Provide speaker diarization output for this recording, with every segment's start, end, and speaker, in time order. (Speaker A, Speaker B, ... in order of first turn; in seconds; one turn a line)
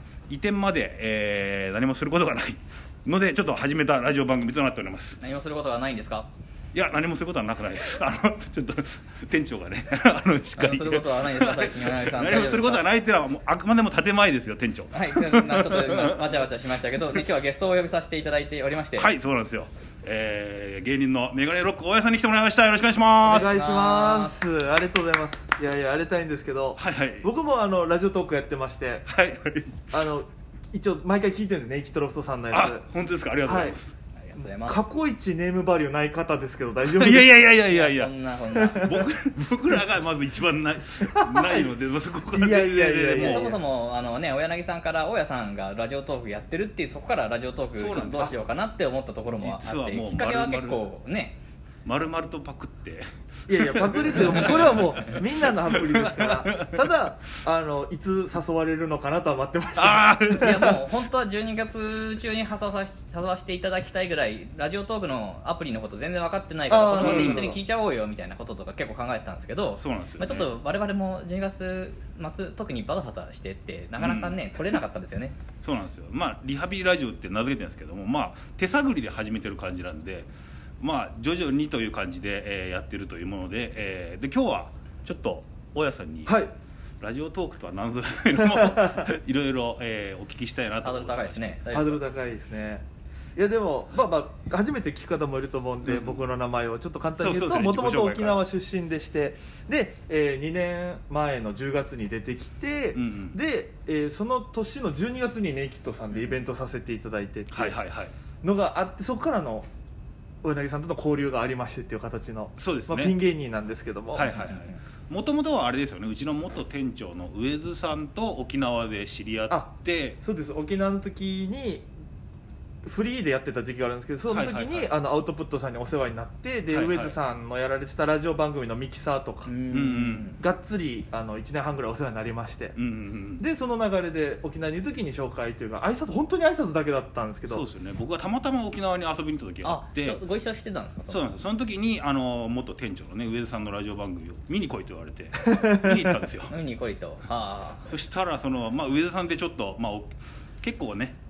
Speaker A: 0.3-5.2
Speaker B: 5.2-6.3
Speaker A: 6.7-16.4
Speaker B: 10.6-12.8
Speaker B: 14.9-19.1
Speaker A: 19.0-23.6
Speaker C: 23.2-29.1
Speaker B: 23.4-24.4
Speaker A: 26.8-27.3
Speaker A: 29.1-29.9
Speaker C: 29.9-32.8
Speaker A: 32.5-33.9
Speaker C: 33.4-33.8
Speaker B: 34.2-34.8
Speaker C: 34.3-37.5
Speaker A: 36.9-43.5
Speaker B: 37.6-39.0
Speaker C: 38.5-39.1
Speaker C: 41.0-41.7
Speaker C: 42.3-43.6
Speaker B: 43.1-51.4
Speaker A: 47.8-48.3
Speaker A: 49.3-50.9
Speaker A: 51.8-56.9
Speaker C: 53.5-60.9
Speaker A: 59.8-60.8
Speaker B: 60.3-75.4
Speaker C: 66.7-67.6
Speaker A: 66.9-67.6
Speaker A: 69.6-70.5
Speaker A: 74.0-74.6
Speaker A: 75.6-80.3
Speaker A: 80.8-86.4
Speaker C: 86.2-86.5
Speaker A: 87.0-91.6
Speaker C: 88.5-88.8
Speaker B: 90.8-92.0
Speaker C: 91.7-92.8
Speaker C: 93.3-107.8
Speaker A: 95.8-96.2
Speaker A: 97.2-98.5
Speaker A: 102.9-103.4
Speaker A: 107.5-108.1
Speaker C: 108.4-109.7
Speaker C: 110.4-114.4
Speaker A: 112.6-113.2
Speaker A: 114.1-120.2
Speaker B: 114.3-114.8
Speaker C: 119.5-121.9
Speaker C: 122.8-129.6
Speaker A: 124.3-124.9
Speaker A: 126.7-127.2
Speaker B: 129.4-130.4
Speaker A: 129.7-130.3
Speaker C: 130.4-132.8
Speaker A: 132.8-133.4
Speaker C: 133.4-137.6
Speaker A: 137.5-140.2
Speaker B: 139.6-141.2
Speaker A: 141.1-146.5
Speaker C: 145.4-146.2
Speaker B: 146.5-147.9
Speaker A: 147.8-151.2